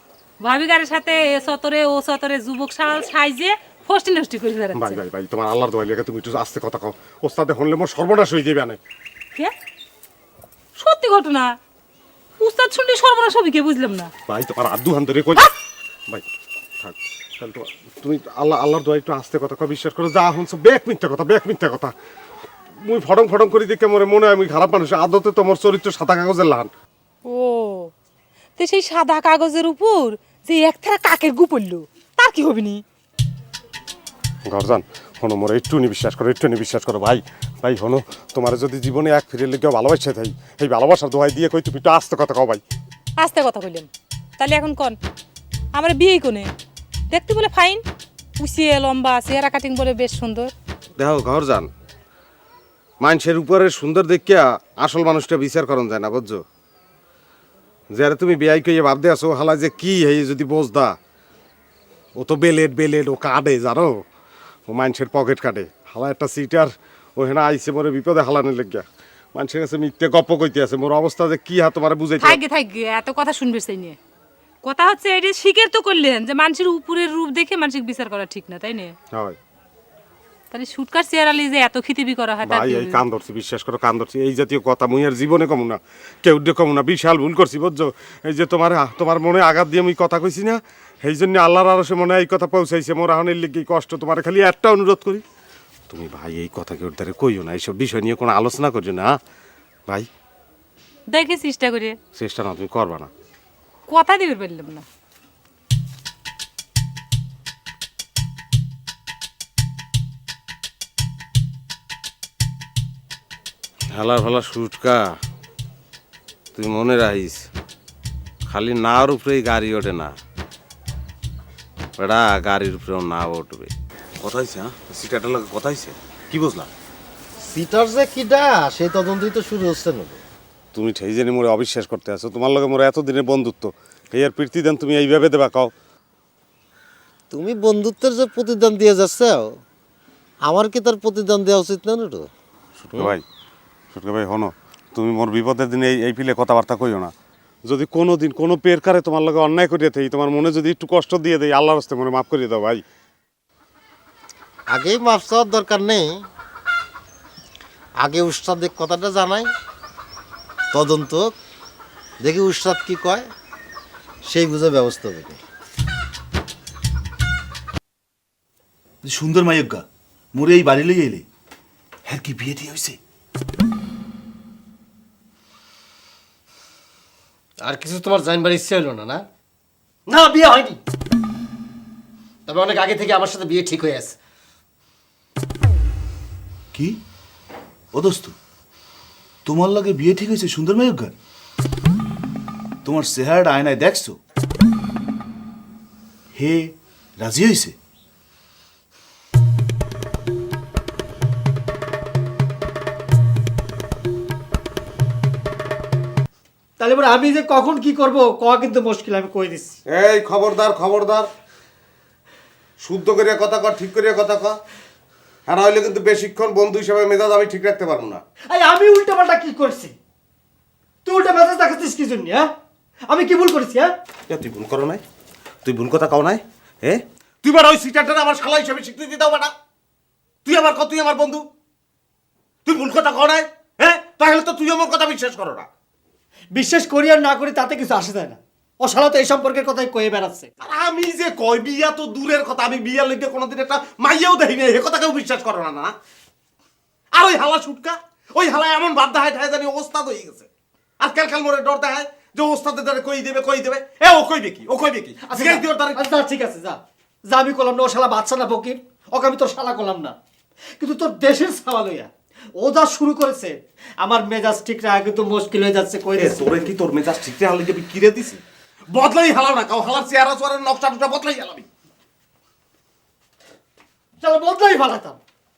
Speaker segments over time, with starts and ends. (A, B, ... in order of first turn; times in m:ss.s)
0:00.4-0:05.0 A
0:04.7-0:08.8 B
0:10.8-0:11.5 A
0:12.4-0:14.1 A
0:14.3-0:15.5 B
0:16.8-0:21.9 B
0:22.8-0:26.7 B
0:27.2-0:27.9 A
0:28.6-0:32.8 A
0:34.4-0:42.6 B
0:43.2-0:43.9 A
0:44.4-0:45.0 A
0:45.8-0:46.5 A
0:47.1-0:47.8 A
0:48.4-0:50.5 A
0:51.0-0:51.7 B
0:53.0-0:56.4 B
0:57.9-1:00.9 B
1:02.2-1:03.9 B
1:04.7-1:12.4 B
1:12.2-1:14.0 A
1:14.6-1:18.9 A
1:19.1-1:19.4 B
1:20.5-1:23.0 A
1:22.4-1:35.2 B
1:35.9-1:39.2 B
1:41.1-1:42.0 A
1:42.2-1:43.1 B
1:43.9-1:44.8 A
1:53.9-1:55.1 B
1:56.5-1:57.5 B
1:58.5-2:00.1 B
2:02.0-2:06.7 B
2:07.4-2:10.2 C
2:10.7-2:15.7 B
2:17.3-2:19.5 C
2:20.4-2:22.3 C
2:22.8-2:23.2 B
2:23.9-2:27.1 B
2:27.6-2:32.8 B
2:34.7-2:36.2 C
2:38.0-2:39.5 C
2:40.7-2:41.3 C
2:42.2-2:43.3 C
2:44.2-2:45.4 C
2:49.0-2:51.2 D
2:52.0-2:53.0 D
2:57.6-2:59.2 E
3:00.1-3:00.8 E
3:02.5-3:04.2 E
3:06.7-3:07.0 D
3:07.9-3:08.4 D
3:09.4-3:11.2 D
3:12.8-3:14.2 D
3:16.3-3:17.8 D
3:26.8-3:29.8 E
3:29.9-3:31.3 B
3:32.8-3:34.6 B
3:35.5-3:38.2 B
3:38.5-3:39.9 E
3:41.0-3:42.5 E
3:43.1-3:43.9 E
3:44.3-3:45.0 B
3:45.6-3:49.5 B
3:50.4-3:51.4 B
3:52.6-3:55.7 B
3:56.5-4:00.5 E
4:00.6-4:05.9 B
4:07.1-4:10.5 B
4:11.0-4:16.0 B
4:15.2-4:20.2 E
4:20.8-4:26.7 E
4:26.2-4:31.7 B
4:34.2-4:35.2 E